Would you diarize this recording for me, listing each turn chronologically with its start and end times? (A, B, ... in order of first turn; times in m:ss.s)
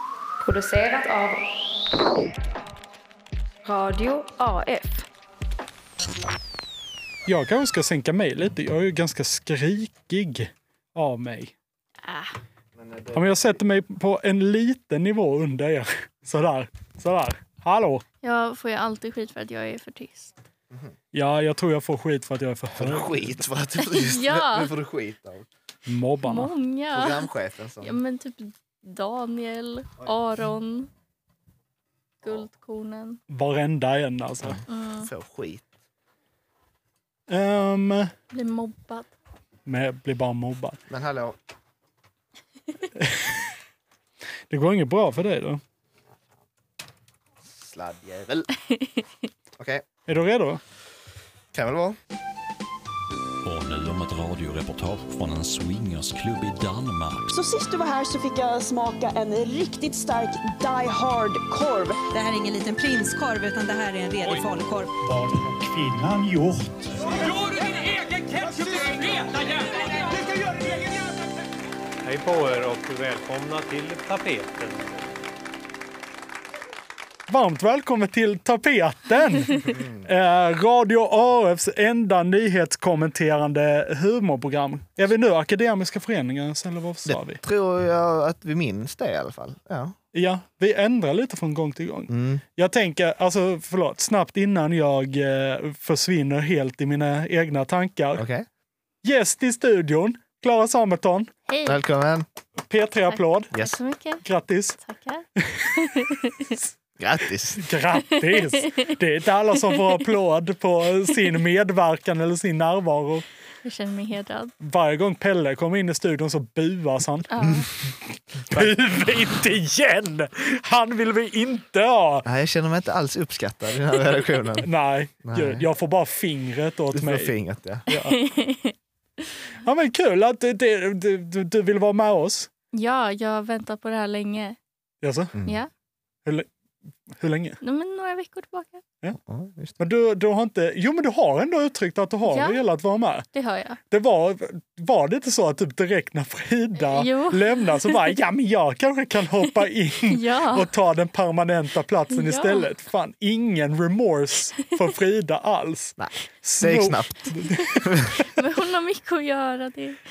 0:00.4-0:01.4 A
0:03.6-0:05.1 A
0:07.3-0:11.5 B
0:12.0-0:12.3 C
0:12.8-0:13.4 D
0:13.1-0:18.0 B
0:18.2-0:20.3 C
0:21.1-0:23.4 B
0:22.8-0:25.5 D
0:23.8-0:24.7 C
0:25.9-0:26.5 B
0:26.2-0:27.3 C
0:26.9-0:28.0 D
0:27.8-0:30.9 C
0:32.2-0:33.2 C
0:33.3-0:34.6 B
0:34.4-0:35.6 D
0:34.7-0:35.1 C
0:37.3-0:38.1 B
0:38.3-0:39.1 C
0:39.7-0:40.8 B
0:40.9-0:41.4 D
0:43.0-0:43.3 B
0:44.5-0:45.6 B
0:47.4-0:48.5 D
0:48.7-0:49.0 C
0:49.6-0:49.8 D
0:50.1-0:50.6 B
0:51.5-0:52.0 D
0:53.4-0:57.3 E
0:57.3-1:02.1 F
1:02.1-1:04.9 G
1:05.1-1:06.9 B
1:12.0-1:15.1 H
1:17.3-1:27.4 B
1:19.7-1:20.1 D
1:27.1-1:30.0 D
1:30.1-1:38.3 B
1:32.1-1:32.4 D
1:38.2-1:38.5 D
1:39.0-1:41.3 B
1:41.5-1:41.8 C
1:41.7-1:42.3 D
1:42.7-1:43.5 B
1:43.5-1:44.2 C
1:43.5-1:43.8 D
1:44.2-1:44.8 B
1:44.8-1:46.5 C
1:45.4-1:46.7 B
1:47.0-1:47.6 D
1:47.6-1:53.2 B
1:48.3-1:48.8 C
1:53.6-1:54.5 C
1:54.6-1:57.3 B
1:57.3-1:57.7 C
1:57.4-1:57.7 D
1:58.5-2:02.3 B
1:58.5-1:58.8 D
2:02.2-2:04.7 D
2:04.6-2:07.4 B
2:05.2-2:05.7 D
2:06.9-2:07.8 D
2:07.9-2:08.2 B
2:07.9-2:08.8 C
2:09.6-2:12.5 B
2:12.7-2:14.6 C
2:15.0-2:15.3 B
2:15.4-2:15.7 C
2:17.1-2:17.6 B
2:17.6-2:18.8 C
2:19.2-2:19.8 D
2:19.8-2:23.2 B
2:22.3-2:22.6 C
2:23.3-2:23.8 C
2:23.9-2:38.1 B
2:26.8-2:28.1 C
2:30.1-2:30.7 C
2:32.1-2:32.7 C
2:36.0-2:38.1 D
2:38.3-2:40.0 C